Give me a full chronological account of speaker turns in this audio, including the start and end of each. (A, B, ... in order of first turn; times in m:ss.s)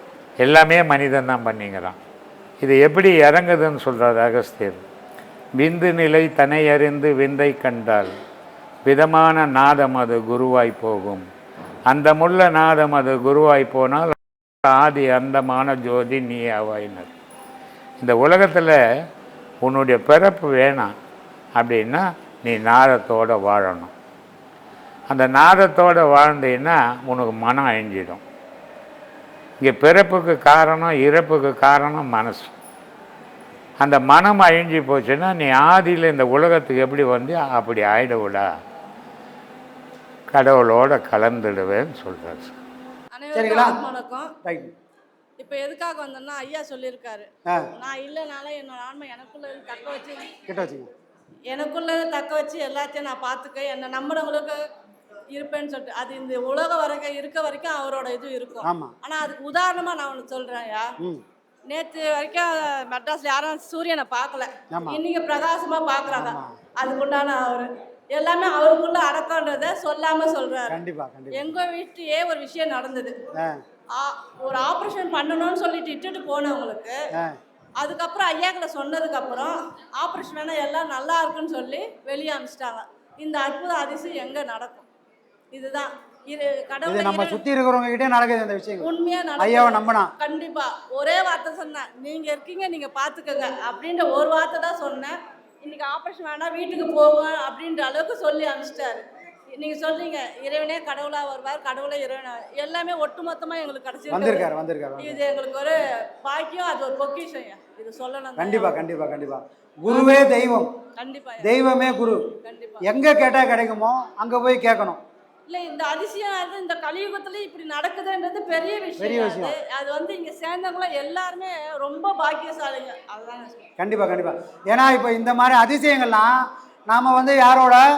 0:00.4-0:02.0 A
0:02.6-0:04.8 A
0:05.6-0:08.1 A
0:08.8-0:11.2 A
0:11.9-0:17.1 A
0:18.0-0:18.8 A
0:19.6-0:20.9 A
0:21.6-0:23.9 A
0:25.1-0:28.2 A
0:29.6-0:32.5 A
0:33.8-0:38.4 A
0:40.3-0:42.6 A
0:43.1-0:44.3 B
0:43.3-0:43.8 C
0:44.4-0:44.7 C
0:45.4-0:50.3 B
0:50.5-0:50.9 C
0:51.5-0:54.6 B
0:55.3-1:00.9 B
0:58.6-0:58.9 C
1:01.7-1:10.8 B
1:04.7-1:05.0 C
1:06.1-1:06.5 C
1:10.7-1:11.4 C
1:11.3-1:13.1 B
1:13.9-1:17.0 B
1:17.8-1:24.9 B
1:25.5-1:27.4 B
1:26.9-1:28.9 C
1:28.8-1:39.0 B
1:29.4-1:30.1 C
1:39.5-1:44.4 B
1:44.1-1:45.2 C
1:45.0-1:48.7 B
1:48.4-1:50.7 C
1:49.9-1:50.2 B
1:51.0-1:51.5 B
1:51.4-1:52.2 C
1:52.4-1:52.8 B
1:52.8-1:55.0 C
1:55.5-2:03.7 B
1:59.0-1:59.5 C
2:03.8-2:07.8 C